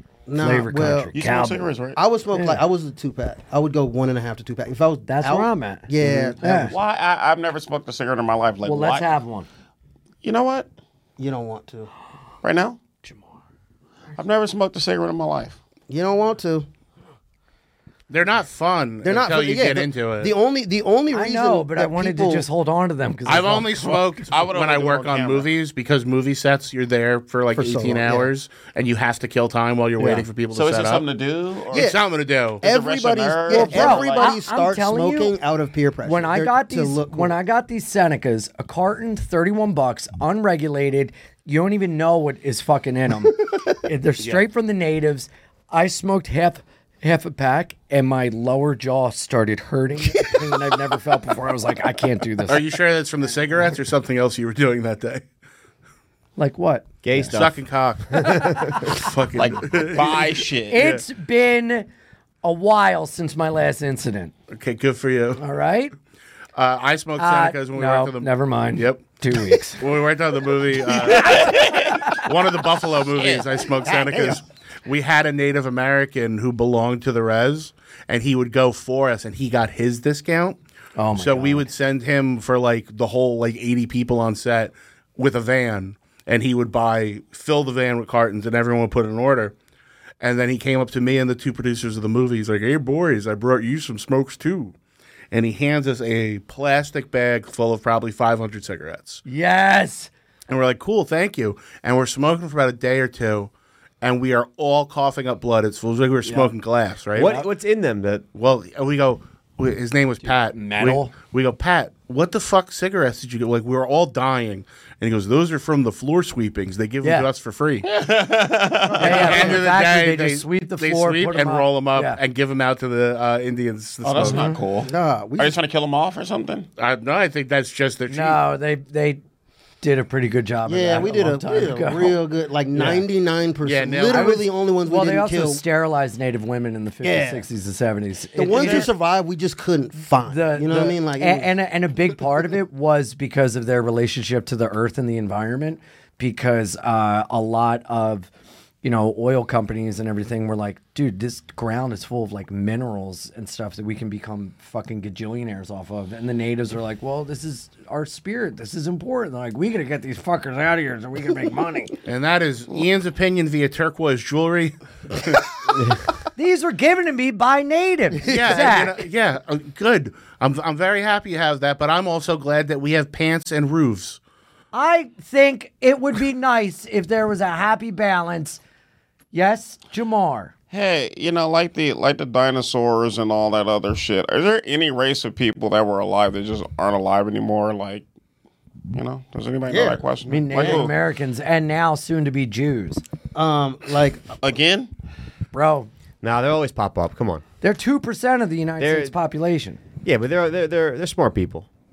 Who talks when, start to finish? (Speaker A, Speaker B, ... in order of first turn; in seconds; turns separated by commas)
Speaker A: 0.3-1.1, Speaker B: 0.4-1.7, Speaker C: 1.1-2.0, Speaker A: 2.0-6.8, Speaker B: 2.3-2.6, Speaker B: 5.1-6.8, Speaker C: 6.5-9.2, Speaker B: 8.6-9.5, Speaker C: 10.2-10.7, Speaker A: 11.2-11.9, Speaker C: 12.4-12.8, Speaker B: 13.0-13.4, Speaker C: 14.2-15.6, Speaker A: 15.9-16.7, Speaker D: 18.1-20.3, Speaker A: 19.0-22.5, Speaker B: 21.1-24.0, Speaker D: 23.3-31.1, Speaker C: 24.3-25.5, Speaker A: 27.6-28.3, Speaker B: 30.0-30.3, Speaker C: 30.5-31.9, Speaker D: 31.7-32.7, Speaker A: 31.7-32.0, Speaker A: 32.6-37.3, Speaker C: 32.6-34.4, Speaker B: 33.5-35.4, Speaker B: 36.1-52.6, Speaker D: 44.2-44.4, Speaker D: 52.5-55.3, Speaker B: 56.4-57.4, Speaker E: 57.0-58.8, Speaker D: 57.3-61.0, Speaker B: 58.5-59.0, Speaker C: 59.4-60.8, Speaker B: 60.7-61.9, Speaker B: 62.4-64.3, Speaker D: 64.5-65.4, Speaker B: 65.4-65.9, Speaker D: 66.6-69.0, Speaker B: 67.2-69.8, Speaker D: 69.8-80.6, Speaker C: 71.0-72.2, Speaker C: 73.2-73.5, Speaker A: 73.8-74.4, Speaker B: 81.0-81.7, Speaker D: 81.2-89.5, Speaker D: 90.2-94.8, Speaker D: 95.3-99.2, Speaker B: 99.3-100.1, Speaker D: 100.5-107.4, Speaker E: 107.1-108.2, Speaker B: 107.2-107.5, Speaker D: 108.3-117.9, Speaker B: 110.5-111.1, Speaker B: 117.0-117.3, Speaker C: 117.8-119.6, Speaker D: 119.0-124.5, Speaker B: 119.0-122.2, Speaker C: 124.0-126.7, Speaker B: 124.2-124.6, Speaker A: 124.8-125.6, Speaker D: 126.8-128.4, Speaker B: 128.1-129.2, Speaker B: 129.8-132.2, Speaker A: 130.7-135.6, Speaker D: 133.6-134.4, Speaker B: 134.1-138.9, Speaker A: 137.0-137.5, Speaker A: 138.4-141.5, Speaker D: 138.5-138.9, Speaker B: 140.0-148.3, Speaker B: 148.8-162.0, Speaker D: 162.1-164.8, Speaker B: 166.4-169.0, Speaker A: 168.3-168.9, Speaker D: 168.3-174.2, Speaker B: 174.7-178.6, Speaker B: 179.3-180.5, Speaker C: 180.7-188.1, Speaker C: 188.9-190.9, Speaker A: 189.7-190.0, Speaker B: 190.3-193.0, Speaker A: 190.6-190.9, Speaker A: 193.3-194.4, Speaker C: 194.4-194.9, Speaker B: 195.5-195.9, Speaker E: 196.2-197.4, Speaker B: 197.6-199.8, Speaker E: 198.8-199.1, Speaker E: 200.0-201.7